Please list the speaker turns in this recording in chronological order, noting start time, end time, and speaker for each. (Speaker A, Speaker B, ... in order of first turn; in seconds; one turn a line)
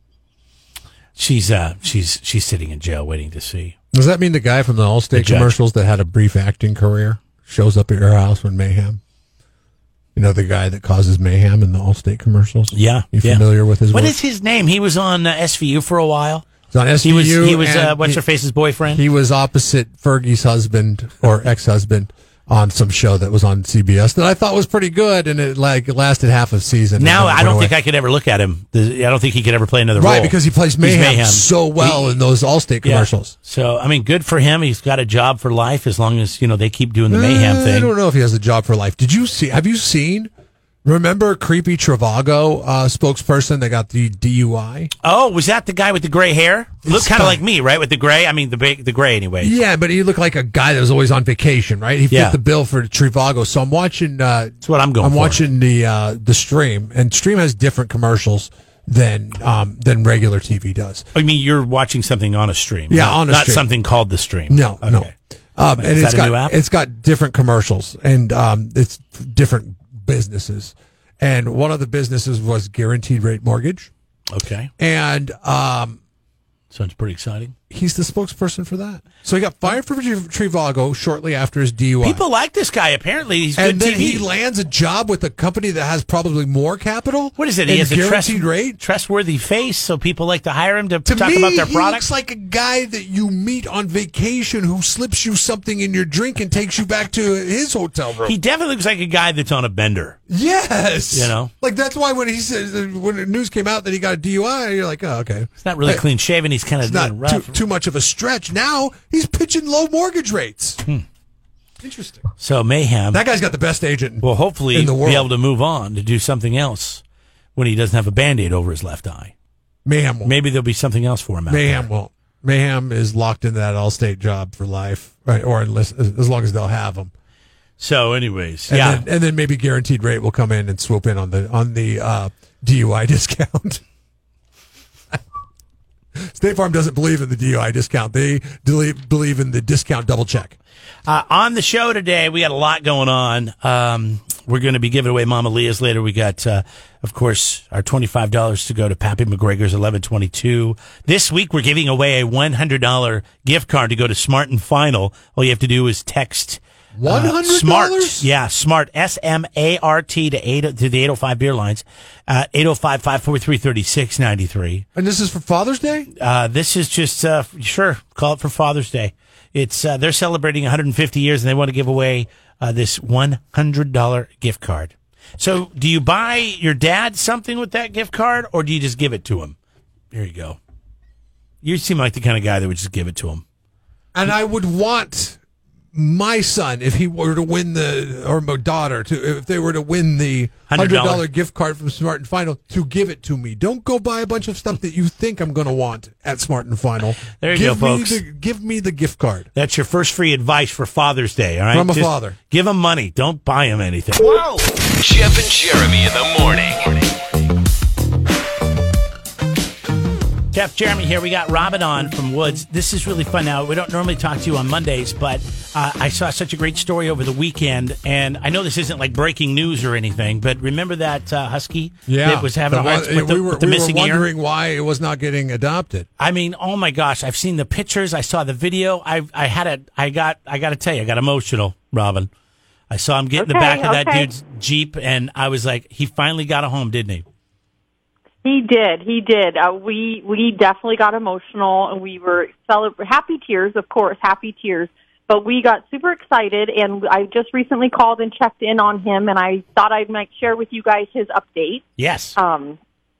Speaker A: 1.1-3.7
Speaker B: 3.9-9.0
Speaker A: 5.1-5.6
Speaker B: 10.2-14.1
Speaker A: 12.7-16.5
Speaker B: 16.7-18.2
Speaker A: 17.0-19.0
Speaker B: 18.9-27.7
Speaker A: 27.0-32.2
Speaker B: 29.9-33.3
Speaker A: 32.8-37.9
Speaker B: 37.1-40.3
Speaker B: 40.8-44.9
Speaker A: 45.0-49.6
Speaker B: 46.9-47.4
Speaker B: 49.4-61.0
Speaker A: 52.1-52.4
Speaker A: 54.6-55.4
Speaker A: 61.1-65.1
Speaker B: 62.9-63.7
Speaker B: 64.5-73.9
Speaker A: 65.8-66.5
Speaker A: 74.3-74.7
Speaker B: 74.8-76.0
Speaker A: 76.7-77.5
Speaker B: 77.7-82.2
Speaker A: 82.0-84.3
Speaker B: 83.5-88.8
Speaker A: 87.4-92.1
Speaker B: 91.0-98.3
Speaker A: 98.2-100.2
Speaker B: 100.3-106.0
Speaker A: 101.1-101.5
Speaker A: 105.6-107.6
Speaker B: 106.8-110.8
Speaker B: 111.8-112.3
Speaker A: 112.4-113.2
Speaker B: 113.1-115.3
Speaker A: 114.2-117.0
Speaker A: 117.5-119.3
Speaker B: 119.8-120.3
Speaker A: 120.2-121.9
Speaker B: 121.5-127.1
Speaker A: 127.8-129.1
Speaker B: 128.7-133.8
Speaker B: 136.2-140.6
Speaker A: 141.1-164.8
Speaker B: 156.9-158.3
Speaker B: 164.9-166.1
Speaker A: 166.2-179.6
Speaker A: 180.1-180.6
Speaker A: 181.6-183.4
Speaker B: 184.1-185.4
Speaker B: 185.9-199.5
Speaker A: 190.7-191.2
Speaker A: 197.4-198.2
Speaker A: 199.5-204.3
Speaker B: 201.7-202.4
Speaker C: 205.0-207.1
Speaker A: 210.5-224.3
Speaker B: 222.1-226.1
Speaker A: 226.2-232.3
Speaker A: 232.9-237.2
Speaker D: 233.4-234.3
Speaker D: 238.4-251.8
Speaker A: 252.0-252.3
Speaker D: 252.3-252.8